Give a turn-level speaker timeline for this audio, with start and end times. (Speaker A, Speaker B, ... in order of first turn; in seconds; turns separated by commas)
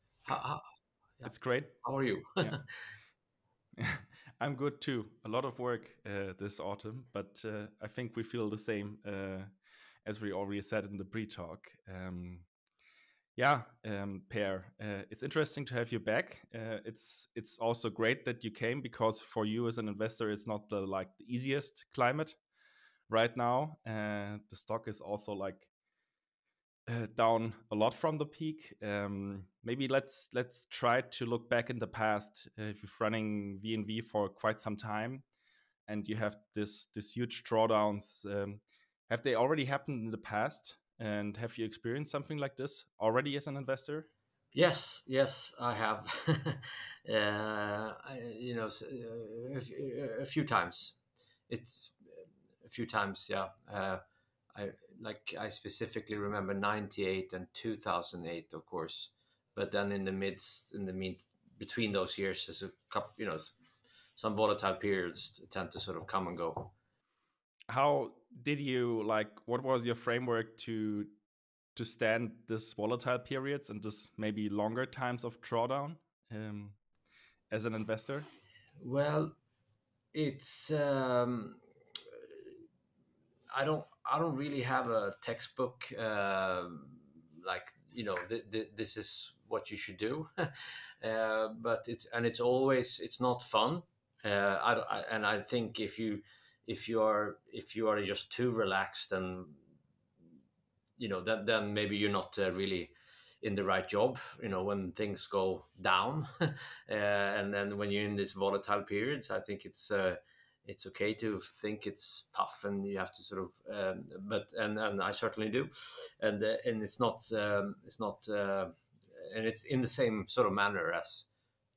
Speaker A: 0.2-0.6, Speaker B: 1.2-1.8, Speaker A: 1.8-2.6, Speaker B: 3.8-9.5, Speaker B: 10.0-12.5, Speaker B: 13.3-22.4, Speaker B: 23.1-25.7, Speaker B: 26.9-35.2, Speaker B: 35.9-44.1, Speaker A: 44.5-51.0, Speaker A: 51.5-54.0, Speaker A: 54.5-63.5, Speaker A: 64.2-66.7, Speaker B: 67.7-71.1, Speaker B: 71.7-76.8, Speaker B: 77.5-78.3, Speaker A: 78.8-79.3, Speaker A: 80.1-82.5, Speaker A: 83.5-99.6, Speaker A: 101.0-121.3